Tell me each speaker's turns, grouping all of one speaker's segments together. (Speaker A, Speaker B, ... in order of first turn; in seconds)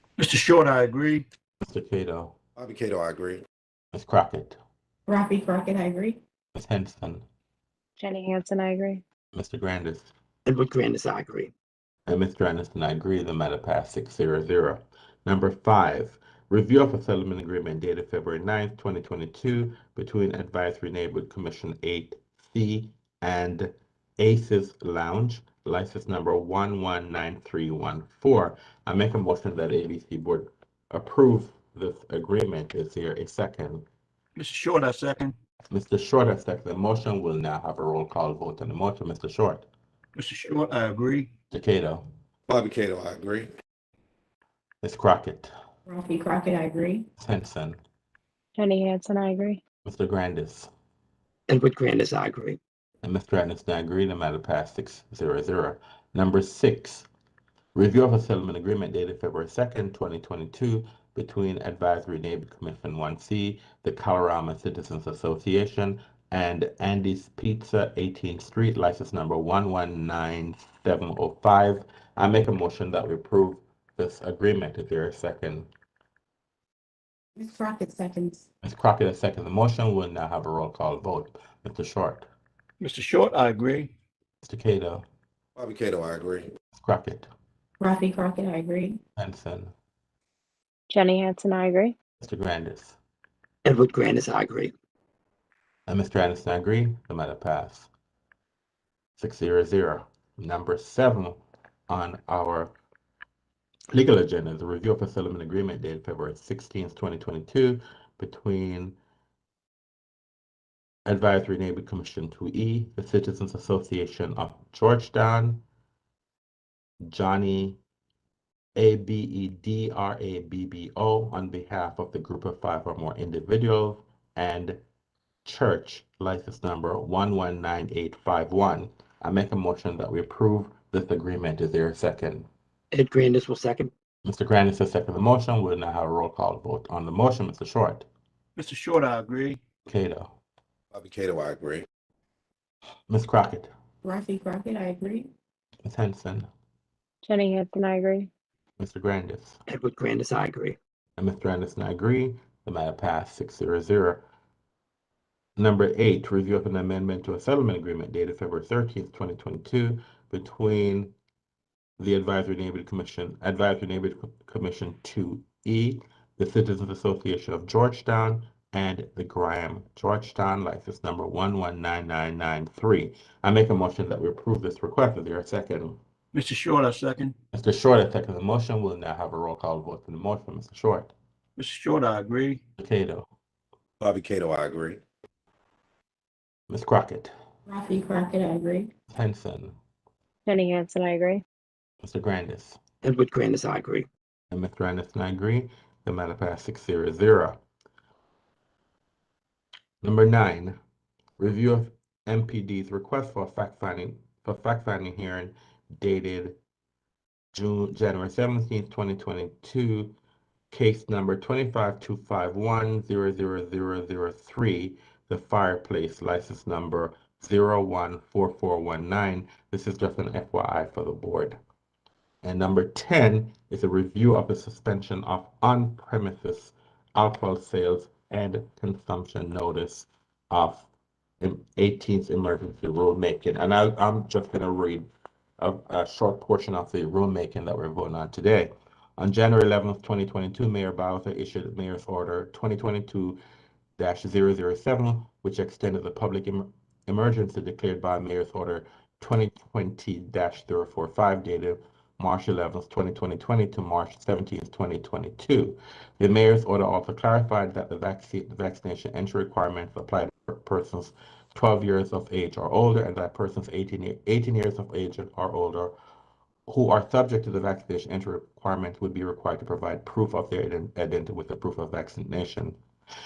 Speaker A: 0.2-1.3, 34.4-35.4, 40.2-41.3, 82.8-83.9, 138.6-139.6, 176.3-177.3, 181.6-182.6
Speaker B: 1.6-2.4, 3.9-4.6, 6.5-7.2, 9.3-10.1, 12.1-33.9, 35.7-39.7, 41.5-42.0, 44.8-45.5, 47.2-47.8, 49.9-50.7, 53.0-57.1, 57.8-75.7, 78.6-82.3, 84.4-85.0, 86.8-87.3, 89.2-89.7, 92.2-93.0, 95.9-97.9, 99.2-102.7, 103.9-109.0, 111.1-115.6, 117.1-117.8, 118.8-124.8, 125.5-132.5, 134.2-138.1, 139.9-140.3, 143.1-143.7, 145.8-146.5, 148.8-149.6, 151.2-154.2, 155.6-161.1, 162.0-176.0, 177.5-181.1, 182.8-183.3, 186.7-187.3, 189.1-189.8, 192.0-192.8, 194.5-197.6, 200.0-200.8, 201.4-206.6, 207.5-210.2, 210.7-221.6, 222.4-230.9, 231.4-235.1, 235.6-243.4, 244.0-265.9, 266.7-272.8
Speaker C: 2.6-3.4, 42.5-43.5, 85.6-86.5, 140.9-141.9, 184.0-185.0
Speaker D: 5.1-6.2, 45.9-47.1, 77.4-78.5, 87.8-89.0, 144.0-145.3, 187.7-188.9
Speaker E: 8.0-9.0, 48.6-49.6, 90.9-92.0, 147.2-148.3, 190.5-191.4
Speaker F: 10.5-11.5, 51.5-52.6, 93.7-94.7, 132.9-133.9, 149.7-150.8, 193.0-194.1